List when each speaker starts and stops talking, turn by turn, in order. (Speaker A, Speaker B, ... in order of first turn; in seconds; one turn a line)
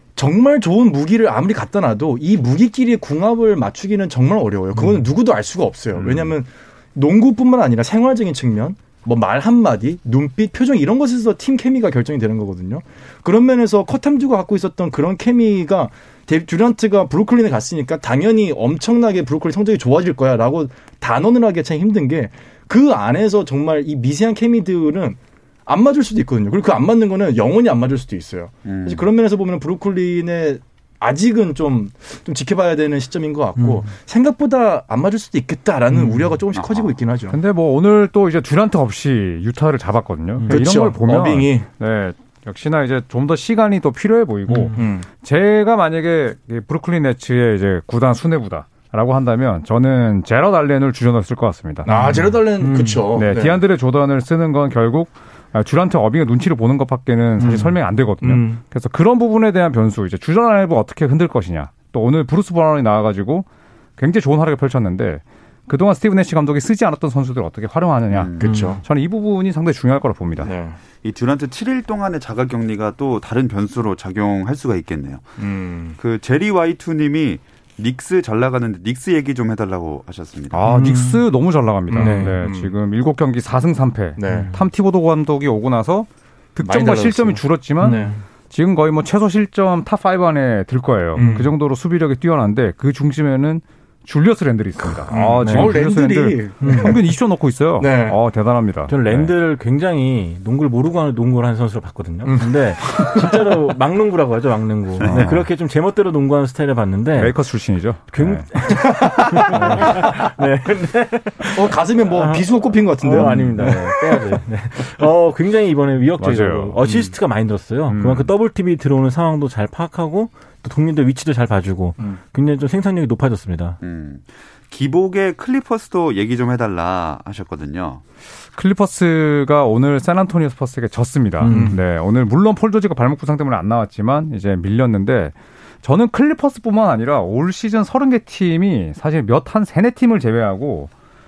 Speaker A: 0.2-37.4
Speaker B: 4.8-5.1
Speaker C: 6.0-6.3
Speaker C: 28.7-29.1
Speaker B: 33.6-33.9
Speaker B: 35.9-36.4
Speaker C: 36.5-37.0
Speaker D: 37.3-51.9
Speaker A: 40.5-41.7
Speaker B: 44.5-44.9
Speaker A: 44.8-45.1
Speaker A: 51.9-53.6
Speaker B: 51.9-53.2
Speaker D: 53.1-63.5
Speaker B: 57.4-58.6
Speaker D: 64.0-68.3
Speaker C: 68.1-68.6
Speaker A: 68.4-68.8
Speaker B: 68.4-68.8
Speaker D: 68.8-70.5
Speaker A: 70.4-70.8
Speaker C: 71.0-75.4
Speaker A: 75.4-76.0
Speaker C: 76.0-80.6
Speaker D: 80.5-99.3
Speaker B: 80.7-81.2
Speaker A: 81.9-82.7
Speaker B: 82.0-82.4
Speaker A: 84.2-84.5
Speaker B: 84.2-84.6
Speaker A: 86.6-88.1
Speaker B: 87.8-88.2
Speaker A: 91.1-91.5
Speaker B: 91.2-91.5
Speaker A: 95.1-97.1
Speaker B: 95.4-95.8
Speaker B: 96.6-97.0
Speaker A: 97.8-98.2
Speaker B: 98.9-107.4
Speaker A: 102.2-103.3
Speaker D: 105.0-105.5
Speaker D: 107.2-108.9
Speaker B: 108.1-123.8
Speaker A: 108.7-109.8
Speaker D: 109.5-110.1
Speaker A: 111.5-114.4
Speaker D: 113.1-113.5
Speaker D: 116.2-116.8
Speaker A: 116.8-117.1
Speaker D: 117.9-118.3
Speaker C: 123.8-128.0
Speaker D: 128.5-140.9
Speaker B: 131.4-131.8
Speaker A: 131.5-131.8